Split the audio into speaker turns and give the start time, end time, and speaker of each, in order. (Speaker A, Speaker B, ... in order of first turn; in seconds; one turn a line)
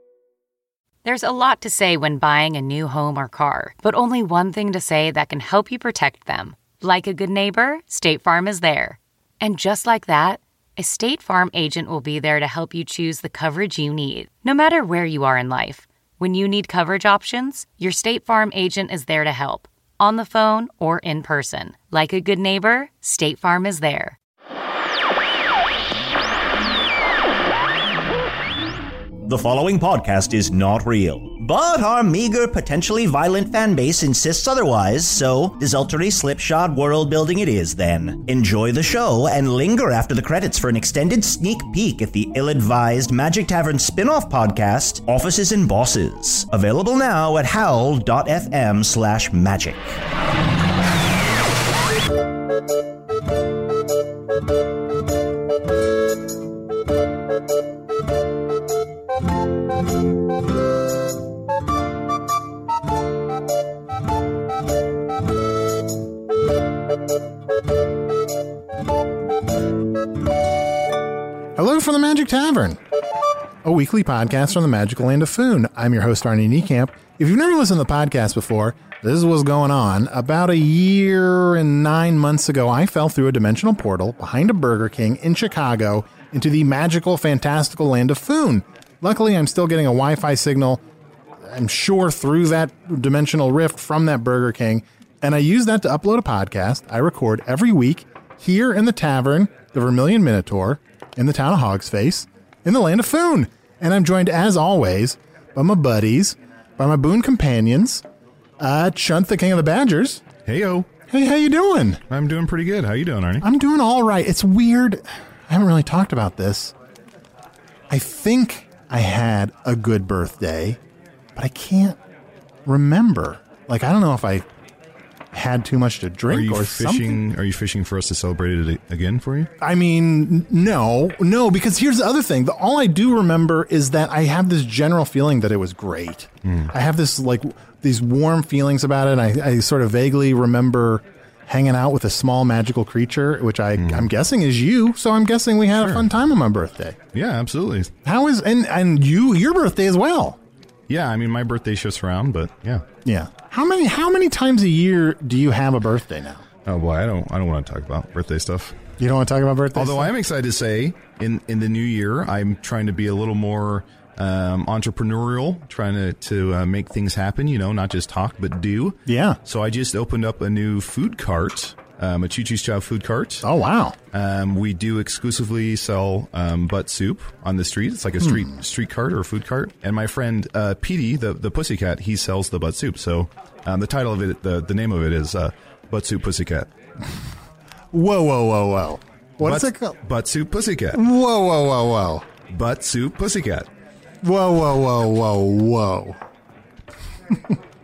Speaker A: 1.0-24.2
Speaker B: 29.2-50.0
Speaker C: 71.6-72.8
Speaker C: 73.6-90.8
Speaker C: 91.5-108.0
Speaker C: 108.6-110.2
Speaker D: 110.5-110.9
Speaker C: 111.1-112.0
Speaker D: 112.1-113.5
Speaker C: 113.4-116.7
Speaker C: 117.9-120.8
Speaker C: 121.3-122.0
Speaker C: 122.7-124.5
Speaker C: 125.3-127.2
Speaker D: 126.3-129.5
Speaker C: 129.6-147.0
Speaker D: 136.4-136.7
Speaker D: 143.8-144.1
Speaker D: 147.1-147.9
Speaker C: 148.1-150.4
Speaker D: 150.9-152.8
Speaker C: 153.1-156.4
Speaker D: 156.7-158.8
Speaker C: 159.0-160.1
Speaker D: 159.8-173.5
Speaker C: 169.1-169.4
Speaker C: 173.4-174.0
Speaker D: 174.1-186.7
Speaker C: 178.2-178.5
Speaker C: 187.9-190.0
Speaker D: 189.4-191.0
Speaker C: 190.9-192.3
Speaker D: 192.5-193.7
Speaker C: 194.2-196.2
Speaker C: 197.3-197.6